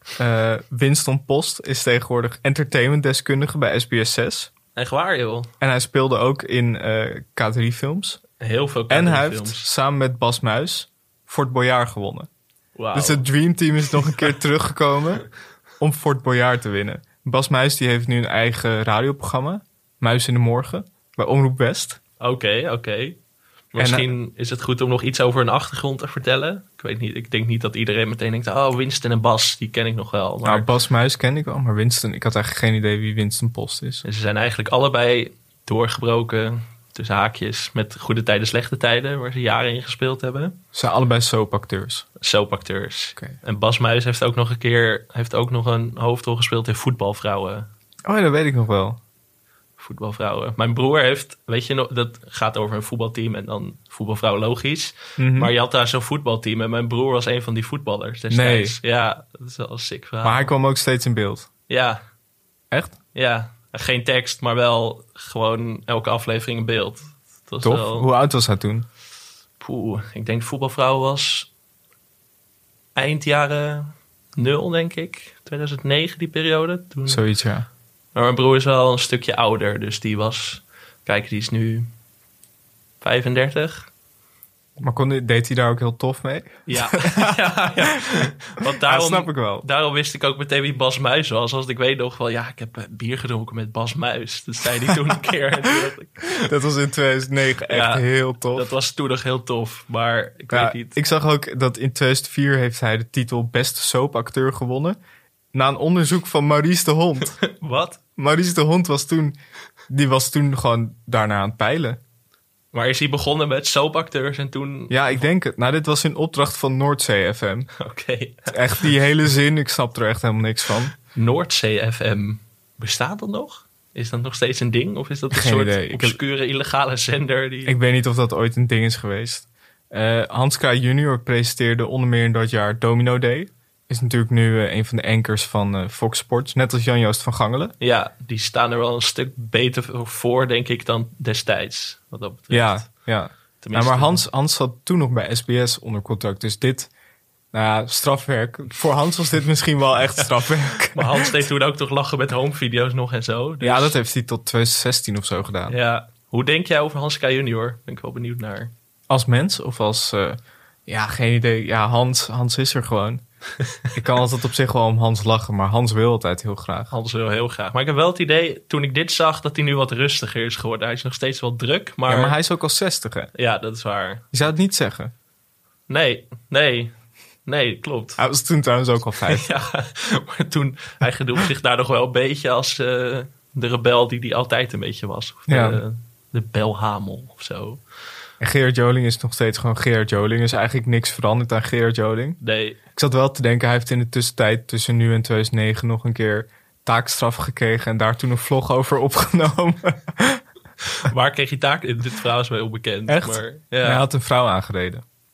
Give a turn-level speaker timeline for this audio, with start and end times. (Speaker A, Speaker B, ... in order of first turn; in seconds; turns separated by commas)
Speaker A: 0.2-4.5, Speaker B: 4.8-5.5, Speaker A: 5.6-8.2, Speaker B: 8.4-9.7, Speaker A: 8.9-12.3, Speaker B: 12.8-13.3, Speaker A: 12.9-15.3, Speaker A: 15.8-22.0, Speaker B: 22.2-23.2, Speaker B: 23.7-30.7, Speaker A: 23.8-24.1, Speaker A: 30.4-34.0, Speaker B: 34.0-40.6, Speaker A: 40.7-42.1, Speaker B: 42.2-47.7, Speaker A: 48.1-49.0, Speaker B: 49.8-60.5, Speaker A: 55.2-55.5, Speaker A: 58.3-58.8, Speaker A: 60.2-61.5, Speaker B: 61.7-62.0, Speaker A: 62.7-63.0, Speaker B: 63.1-68.1, Speaker A: 67.6-68.9, Speaker B: 69.6-71.5, Speaker B: 73.0-77.2, Speaker A: 77.1-77.7, Speaker B: 78.2-81.9, Speaker B: 83.0-83.9, Speaker A: 84.8-87.4, Speaker B: 86.7-96.5, Speaker A: 88.8-89.7, Speaker A: 96.4-98.7, Speaker B: 97.7-101.0, Speaker A: 100.5-105.0, Speaker A: 105.5-107.4, Speaker B: 107.5-108.0, Speaker A: 108.2-109.4, Speaker A: 109.9-112.0, Speaker B: 112.7-115.0, Speaker A: 114.9-117.7, Speaker B: 117.8-118.9, Speaker A: 118.5-120.9, Speaker B: 121.1-127.8, Speaker A: 125.3-126.2, Speaker A: 127.7-137.7, Speaker B: 137.8-142.9, Speaker A: 142.5-146.9, Speaker B: 143.6-144.2, Speaker A: 147.5-151.4, Speaker B: 150.2-154.0, Speaker A: 153.6-155.8, Speaker B: 155.7-158.7, Speaker A: 159.1-163.2, Speaker A: 163.9-166.9, Speaker B: 166.9-172.4, Speaker A: 172.1-173.3, Speaker B: 173.3-174.2, Speaker A: 174.3-175.1, Speaker B: 175.9-176.9, Speaker B: 177.5-178.2, Speaker A: 178.2-179.5, Speaker B: 179.3-187.8, Speaker A: 185.5-185.8, Speaker A: 188.4-192.4, Speaker B: 192.4-192.8, Speaker A: 192.9-200.4, Speaker B: 201.0-204.0, Speaker A: 203.1-205.1